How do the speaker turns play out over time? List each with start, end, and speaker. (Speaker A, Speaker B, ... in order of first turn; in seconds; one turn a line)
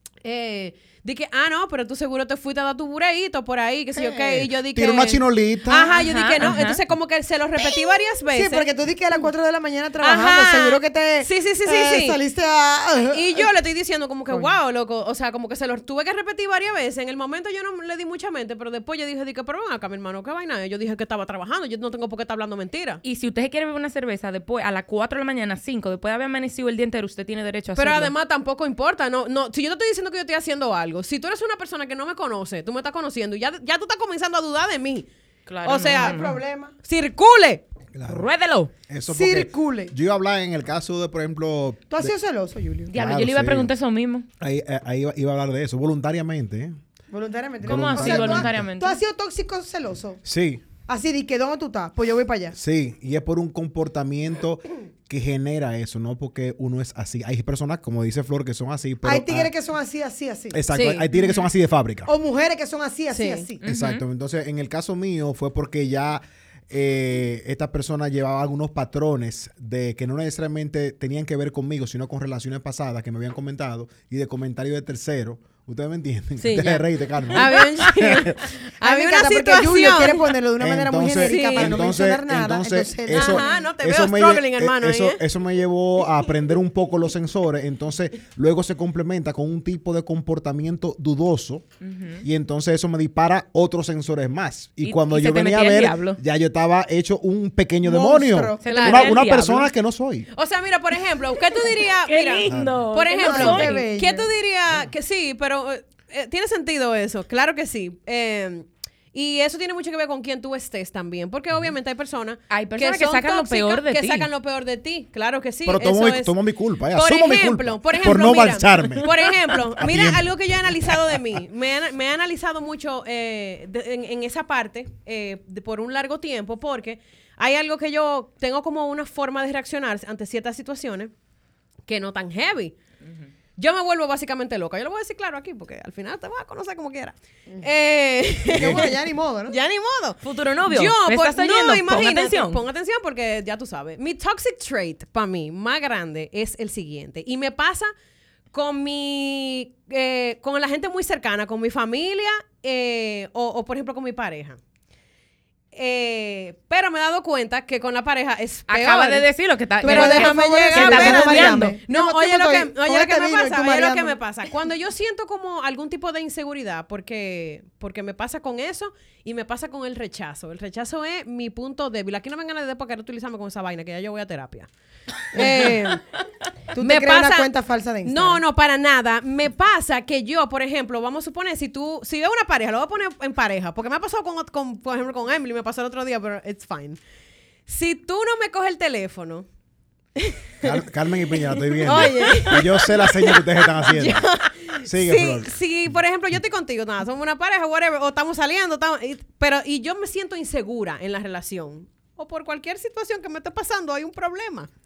Speaker A: 0.2-9.2
Speaker B: 4.2-6.0
Speaker C: 5.9-6.8
Speaker D: 8.3-13.5
Speaker A: 10.0-12.2
Speaker A: 13.1-23.0
Speaker C: 23.0-28.1
Speaker A: 27.8-35.1
Speaker C: 35.5-36.4
Speaker A: 35.6-36.2
Speaker D: 35.9-36.7
Speaker A: 36.8-37.6
Speaker B: 37.9-38.3
Speaker C: 38.1-38.7
Speaker B: 38.9-42.1
Speaker D: 39.1-39.9
Speaker D: 41.9-43.0
Speaker C: 42.9-44.2
Speaker B: 42.9-43.7
Speaker B: 44.4-46.8
Speaker D: 47.1-50.2
Speaker B: 47.6-48.7
Speaker C: 47.7-49.0
Speaker B: 50.2-50.6
Speaker D: 50.9-52.5
Speaker B: 52.5-59.5
Speaker D: 59.0-60.6
Speaker B: 60.5-62.1
Speaker A: 60.7-61.1
Speaker D: 62.1-63.6
Speaker A: 63.1-63.5
Speaker C: 63.6-64.0
Speaker B: 63.6-78.4
Speaker A: 76.4-80.3
Speaker D: 78.8-83.6
Speaker B: 80.6-91.7
Speaker A: 81.2-81.9
Speaker A: 83.1-85.2
Speaker C: 91.8-92.2
Speaker B: 92.2-100.3
Speaker C: 94.8-96.2
Speaker D: 97.8-98.7
Speaker C: 98.6-99.7
Speaker A: 98.7-99.2
Speaker A: 100.3-116.4
Speaker C: 102.0-103.9
Speaker B: 102.5-102.9
Speaker D: 103.2-104.3
Speaker C: 112.5-114.3
Speaker B: 115.7-119.1
Speaker A: 116.9-131.1
Speaker B: 119.7-121.2
Speaker A: 131.9-132.8
Speaker A: 133.6-138.9
Speaker D: 138.5-139.6
Speaker B: 138.5-138.8
Speaker A: 139.5-147.9
Speaker C: 140.2-142.6
Speaker A: 148.5-154.6
Speaker A: 155.7-159.3
Speaker C: 158.7-161.8
Speaker D: 159.8-164.2
Speaker A: 159.8-174.7
Speaker D: 175.3-175.8
Speaker A: 175.3-176.0
Speaker D: 176.7-178.4
Speaker A: 176.8-177.5
Speaker A: 178.0-187.0
Speaker A: 187.7-189.4
Speaker A: 190.2-190.8
Speaker B: 190.6-194.2
Speaker A: 191.8-204.7
Speaker B: 194.8-195.6